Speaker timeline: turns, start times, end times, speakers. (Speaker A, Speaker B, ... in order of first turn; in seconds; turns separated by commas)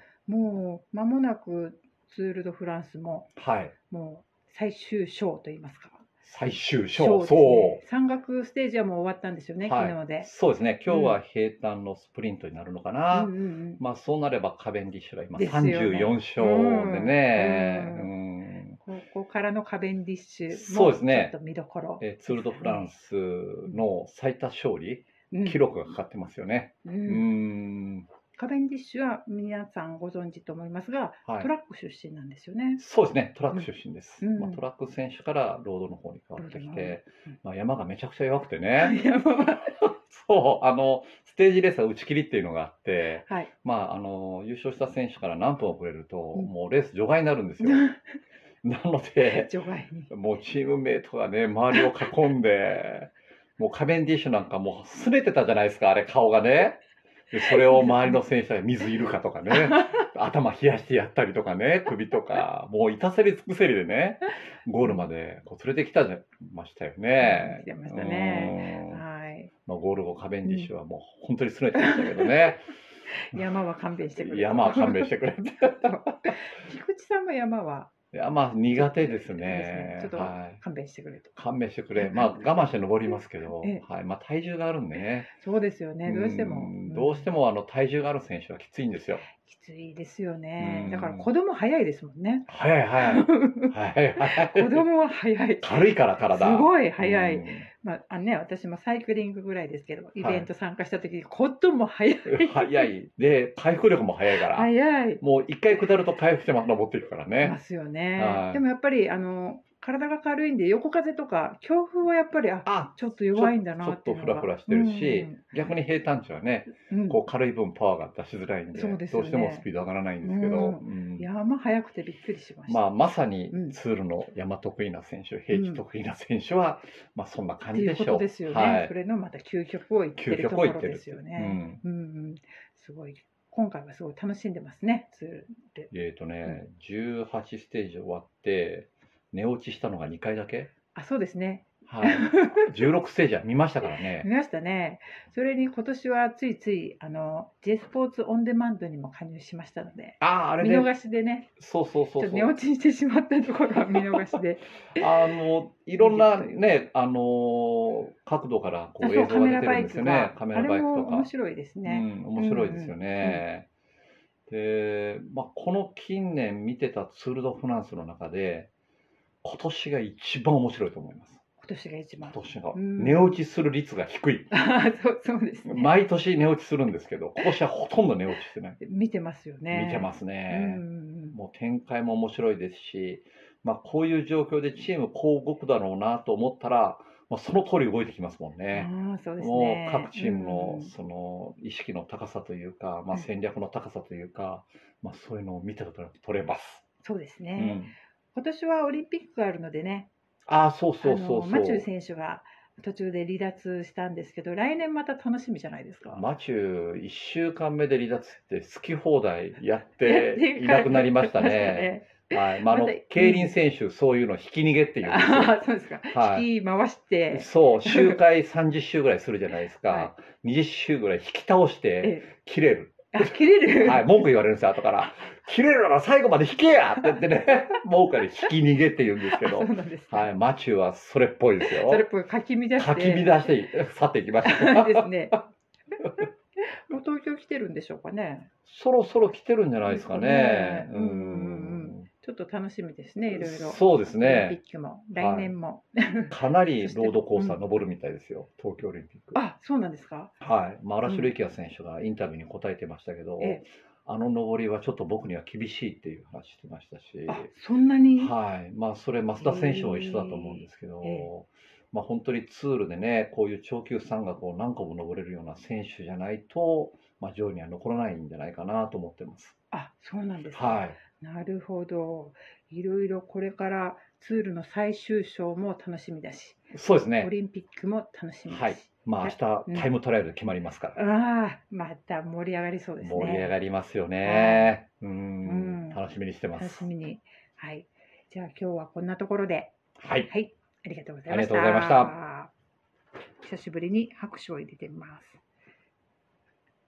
Speaker A: 0.3-3.3, Speaker B: 3.4-3.7, Speaker A: 3.9-6.1, Speaker B: 6.2-7.8, Speaker A: 6.9-10.3, Speaker B: 9.6-18.8, Speaker A: 10.9-11.2, Speaker A: 13.1-13.8, Speaker A: 15.4-18.1, Speaker A: 18.8-22.9, Speaker B: 20.5-21.4, Speaker B: 22.0-28.1, Speaker A: 25.3-25.6, Speaker A: 26.8-27.3, Speaker A: 28.4-32.8, Speaker B: 32.8-39.0, Speaker A: 34.2-34.6, Speaker A: 36.4-37.0, Speaker A: 38.8-39.8, Speaker B: 39.8-47.9, Speaker A: 47.6-48.0, Speaker B: 48.6-49.5, Speaker A: 49.3-50.1, Speaker B: 50.1-56.8, Speaker B: 57.3-69.0, Speaker A: 57.7-58.2, Speaker A: 59.5-60.0, Speaker A: 67.2-69.5, Speaker B: 69.7-72.7, Speaker A: 71.8-72.5, Speaker A: 73.1-77.9, Speaker B: 74.2-76.3, Speaker B: 78.1-80.6, Speaker A: 78.8-81.3, Speaker B: 81.4-85.3, Speaker A: 82.0-82.4, Speaker A: 85.3-87.3, Speaker B: 86.0-89.2, Speaker A: 89.3-92.5, Speaker B: 90.6-91.3, Speaker B: 92.5-94.9, Speaker A: 93.0-102.9, Speaker B: 95.6-97.7, Speaker B: 100.2-100.5, Speaker B: 102.3-107.6, Speaker A: 104.3-105.2, Speaker A: 107.4-115.4, Speaker B: 108.2-108.6, Speaker B: 112.7-121.3, Speaker A: 116.9-117.2, Speaker A: 118.7-119.7, Speaker A: 120.2-122.8, Speaker B: 122.7-128.9, Speaker A: 123.5-123.8, Speaker A: 125.5-125.8, Speaker A: 127.7-135.9, Speaker B: 130.2-131.8, Speaker B: 135.9-140.7, Speaker A: 140.9-142.7, Speaker B: 141.9-144.3, Speaker A: 144.2-151.5, Speaker B: 150.2-150.9, Speaker B: 151.6-152.5, Speaker A: 152.2-155.3, Speaker B: 155.0-161.3, Speaker A: 156.0-156.6, Speaker A: 159.0-163.4, Speaker B: 161.8-163.7, Speaker B: 164.5-168.7, Speaker B: 169.4-171.4, Speaker A: 171.6-173.4, Speaker B: 172.2-174.5, Speaker A: 174.5-175.9, Speaker B: 175.7-178.8, Speaker A: 178.8-181.4, Speaker B: 179.7-196.8, Speaker A: 188.7-190.9, Speaker A: 197.0-197.8, Speaker B: 197.6-197.9, Speaker A: 198.3-200.1, Speaker B: 200.5-201.9, Speaker A: 201.0-206.2, Speaker B: 206.1-216.5, Speaker A: 210.0-213.6, Speaker A: 215.0-218.2, Speaker B: 217.3-232.1, Speaker A: 222.0-222.3, Speaker A: 223.1-224.1, Speaker A: 229.2-230.3, Speaker A: 231.6-233.5, Speaker B: 232.8-235.3, Speaker A: 234.4-235.4, Speaker A: 236.6-238.5, Speaker B: 238.7-242.1, Speaker A: 239.9-247.6, Speaker B: 243.3-244.6, Speaker B: 245.2-245.5, Speaker B: 246.3-249.4, Speaker A: 249.3-250.3, Speaker B: 250.4-257.5, Speaker A: 251.0-251.3, Speaker A: 257.3-258.3, Speaker B: 258.2-269.6, Speaker A: 259.4-261.3, Speaker A: 269.7-276.6, Speaker B: 270.5-271.0, Speaker B: 276.7-277.3, Speaker A: 277.2-279.9, Speaker B: 278.5-281.0, Speaker A: 280.9-283.5, Speaker B: 283.0-286.9, Speaker A: 284.2-284.8, Speaker A: 285.4-286.0, Speaker A: 286.6-289.7, Speaker B: 290.0-290.3, Speaker A: 290.3-292.5, Speaker B: 291.3-292.2, Speaker A: 293.4-295.4